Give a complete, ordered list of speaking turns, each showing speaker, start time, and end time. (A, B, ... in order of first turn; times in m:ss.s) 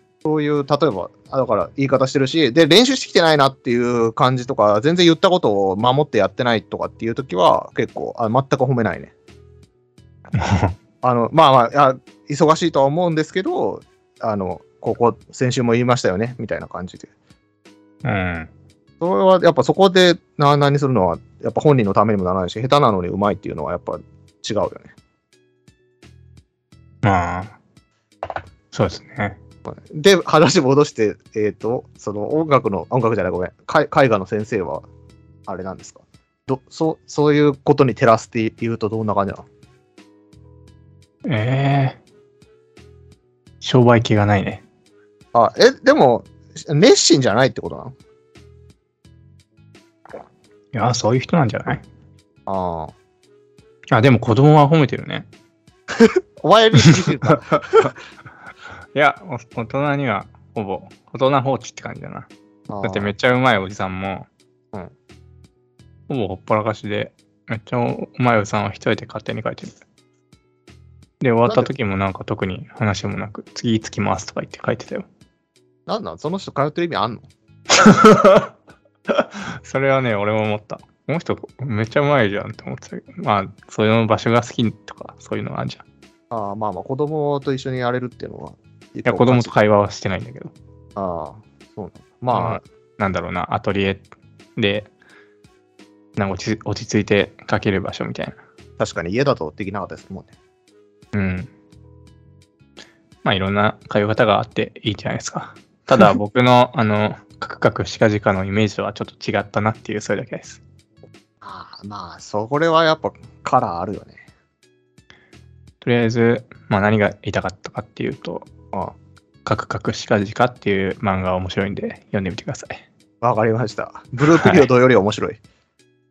0:00.2-0:09.1 A
0:10.4-0:10.8 B
0:11.0-0:17.1 A
0:18.0-0:18.5 B
0:19.0-0:24.9 A
0:27.0-0:27.6 B
0:28.7-0:29.4 B
0:29.7-0:34.9 A
0:35.5-0:39.5 A
0:41.3-0:42.0 B
0:43.6-0:44.6 B
0:45.3-0:48.0 A
0:50.7-0:51.8 B
0:52.5-0:52.9 A
0:53.9-0:55.3 B
0:56.0-0:57.9 A
0:57.3-0:57.9 B
0:58.9-1:02.3 B
1:02.7-1:03.1 A
1:02.8-1:04.3 B
1:06.1-1:09.7 B
1:11.2-1:15.1 B
1:11.4-1:11.7 A
1:15.9-1:17.3 A
1:17.8-1:18.5 B
1:19.2-1:25.8 B
1:26.3-1:29.5 A
1:29.1-1:30.5 B
1:31.0-1:32.6 A
1:32.3-1:34.9 B
1:36.2-1:38.4 B
1:38.8-1:40.3 A
1:41.1-1:41.5 B
1:43.2-1:50.6 B
1:51.4-1:54.2 A
1:55.8-1:58.5 B
1:59.4-2:02.8 B
2:03.2-2:05.4 A
2:04.4-2:04.7 B